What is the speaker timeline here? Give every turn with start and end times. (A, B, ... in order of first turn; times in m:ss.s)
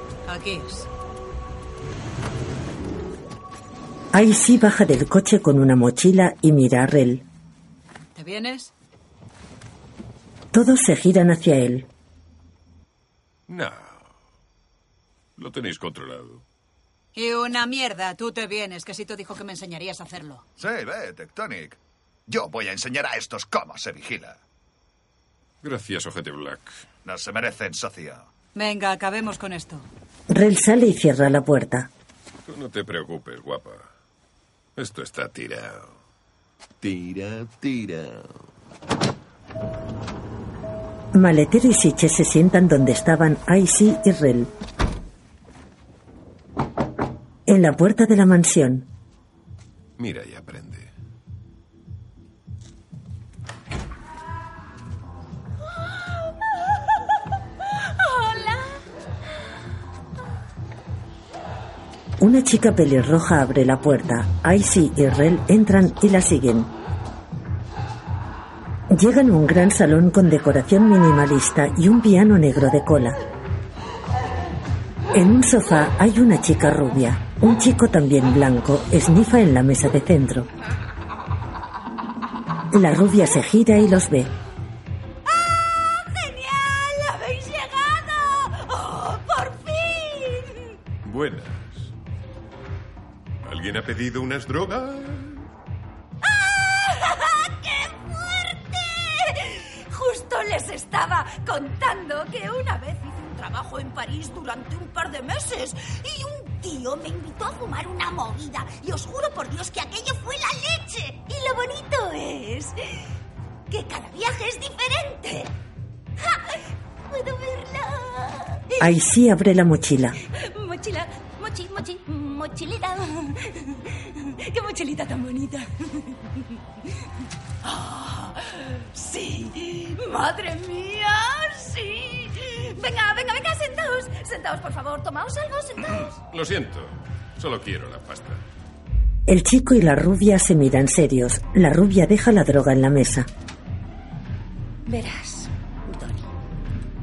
0:00.2-0:00.9 A
0:04.1-0:07.2 B
0:08.2-0:08.7 A
0:10.5-0:11.9 B
0:13.5-0:14.0 C
0:15.4-0:16.4 C
0:17.2-0:20.4 A
0:20.6-0:24.4 D
0:25.6-0:26.8 C
0:27.0-0:28.3 D
0:28.5-0:29.9 A
0:30.3-0:31.9 B
0:32.5-0:33.9 C
0:34.8-0:35.9 C
0:36.8-0:38.2 C
0:41.1-0:44.5 B
0:47.5-0:48.9 B
0:50.0-0:50.9 C
0:56.0-0:56.6 E
0:57.9-0:58.8 E
1:02.2-1:06.7 B
1:08.9-1:13.2 B
1:15.1-1:20.5 B
1:22.7-1:24.3 B
1:25.3-1:30.8 E
1:31.0-1:31.9 C
1:33.4-1:35.5 C
1:36.2-1:53.1 E
1:53.7-1:55.5 E
1:56.2-1:59.0 E
1:58.8-2:00.2 B
2:00.2-2:06.6 E
2:07.6-2:16.1 E
2:15.9-2:18.4 C
2:19.3-2:23.3 B
2:24.9-2:26.3 E